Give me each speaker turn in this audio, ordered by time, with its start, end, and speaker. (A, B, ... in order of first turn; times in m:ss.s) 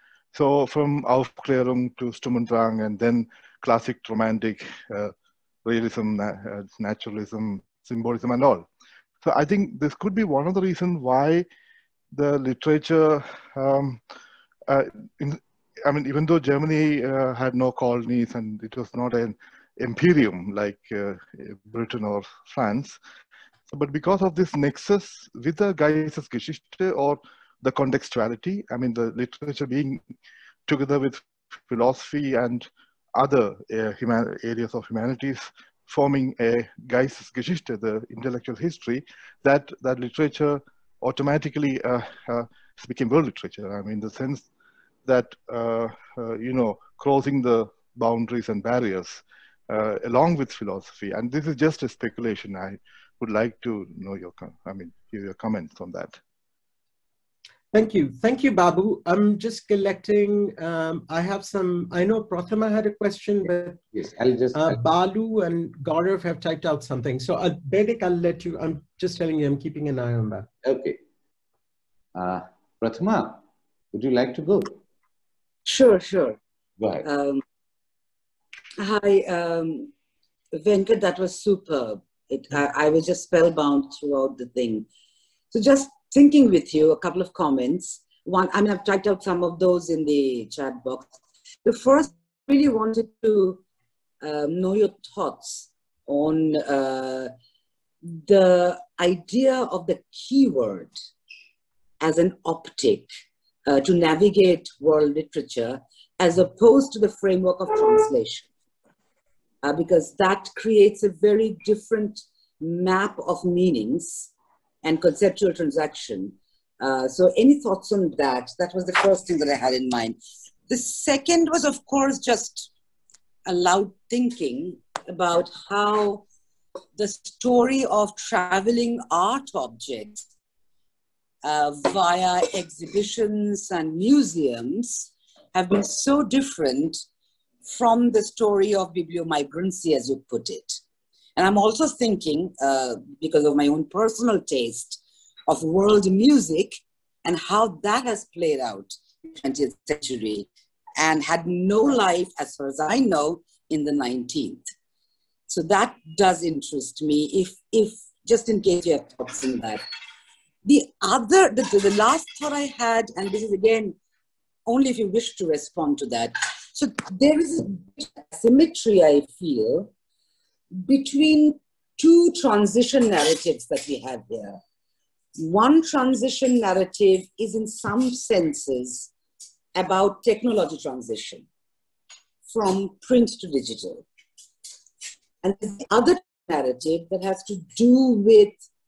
0:00.3-0:08.7 A
0:09.2-0:11.4 A
0:12.1-0:14.0 A
0:14.7-0:23.0 A
0:23.7-0:30.0 A
0:30.7-0:44.5 A
0:45.0-0:56.2 A
0:57.7-1:03.8 B
1:03.4-1:04.8 C
1:04.5-1:10.5 B
1:10.6-1:11.0 C
1:12.2-1:14.8 C
1:15.7-1:16.4 D
1:16.8-1:17.1 C
1:17.0-1:17.4 D
1:18.8-1:19.9 D
1:20.5-1:24.9 D
1:25.5-1:31.1 D
1:31.6-1:33.6 D
1:34.2-1:37.3 D
1:38.1-1:40.9 D
1:42.0-1:43.1 D
1:43.6-1:48.5 D
1:49.6-1:54.3 D
1:54.8-2:02.7 D
2:03.4-2:06.3 D
2:06.9-2:10.2 D
2:11.4-2:17.0 D
2:17.6-2:20.8 D
2:21.4-2:34.6 D
2:35.5-2:39.8 D
2:40.6-2:44.0 D
2:44.6-2:49.9 D
2:50.7-2:54.6 D
2:55.4-2:59.1 D
2:59.7-3:01.5 D
3:02.5-3:04.0 D
3:05.4-3:08.6 D